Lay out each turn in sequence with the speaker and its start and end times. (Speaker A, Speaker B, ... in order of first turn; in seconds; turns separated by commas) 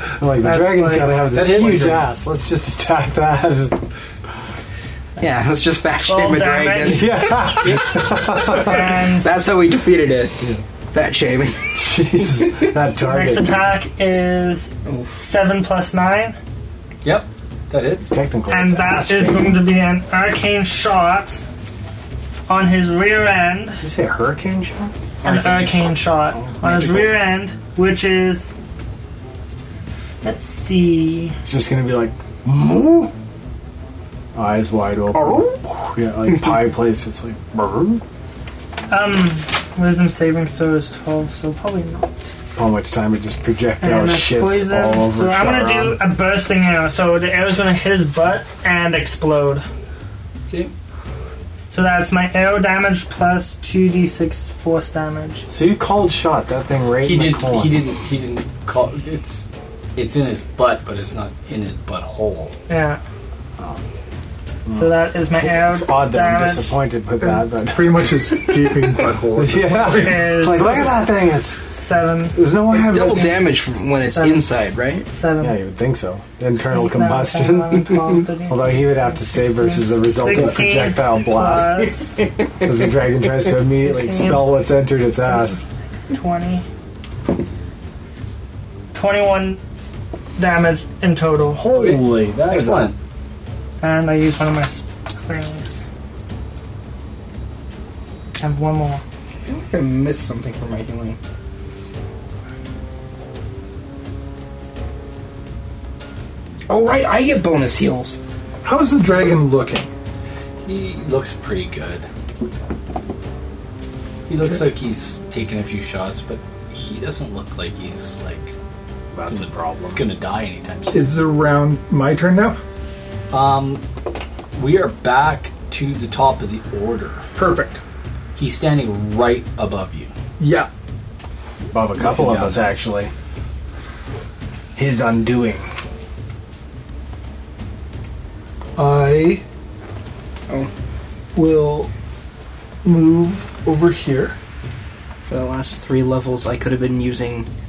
Speaker A: 0.2-3.8, Speaker B: 0.4-1.3, Speaker C: 1.3-2.1, Speaker D: 5.2-12.7, Speaker B: 6.0-7.3, Speaker A: 6.9-9.0, Speaker B: 8.4-9.3, Speaker A: 11.7-13.6, Speaker B: 13.0-16.4, Speaker C: 17.0-18.1, Speaker A: 18.1-19.6, Speaker B: 18.5-21.4, Speaker B: 22.5-23.8, Speaker A: 23.8-27.1, Speaker B: 25.2-28.5, Speaker B: 30.2-31.4, Speaker A: 31.5-33.1, Speaker A: 34.3-38.0, Speaker D: 35.1-35.8, Speaker B: 38.9-42.2, Speaker A: 42.6-46.0, Speaker B: 43.8-49.6, Speaker B: 51.7-55.5, Speaker A: 55.5-57.8, Speaker C: 57.0-59.5, Speaker C: 60.0-62.5, Speaker B: 62.7-63.0, Speaker A: 63.6-63.8, Speaker A: 64.7-68.4, Speaker B: 64.7-66.8, Speaker E: 67.6-70.5, Speaker A: 69.3-71.6, Speaker B: 69.9-70.9, Speaker B: 71.7-72.4, Speaker A: 72.3-73.5, Speaker D: 72.7-75.1, Speaker B: 74.0-74.5, Speaker B: 75.1-75.6, Speaker A: 75.4-81.9, Speaker B: 76.7-82.2, Speaker D: 82.2-82.5, Speaker A: 82.6-85.6, Speaker B: 83.5-84.6, Speaker B: 85.2-86.7, Speaker B: 88.9-89.6, Speaker B: 90.4-91.6, Speaker A: 91.5-92.9, Speaker C: 91.7-93.0, Speaker B: 93.8-95.8, Speaker B: 98.4-99.0, Speaker D: 99.5-101.2, Speaker D: 106.7-108.2, Speaker E: 108.6-109.9, Speaker C: 110.7-112.1, Speaker C: 114.3-118.5, Speaker A: 119.1-120.0, Speaker C: 119.3-121.0, Speaker E: 120.9-122.6, Speaker C: 123.3-123.8, Speaker C: 124.6-127.3, Speaker E: 127.4-127.8, Speaker C: 128.4-130.1, Speaker E: 130.4-130.7, Speaker A: 131.7-133.1, Speaker C: 132.0-132.7, Speaker A: 134.8-135.7, Speaker E: 138.8-139.4, Speaker E: 141.3-141.9, Speaker E: 142.8-144.4, Speaker D: 145.2-147.5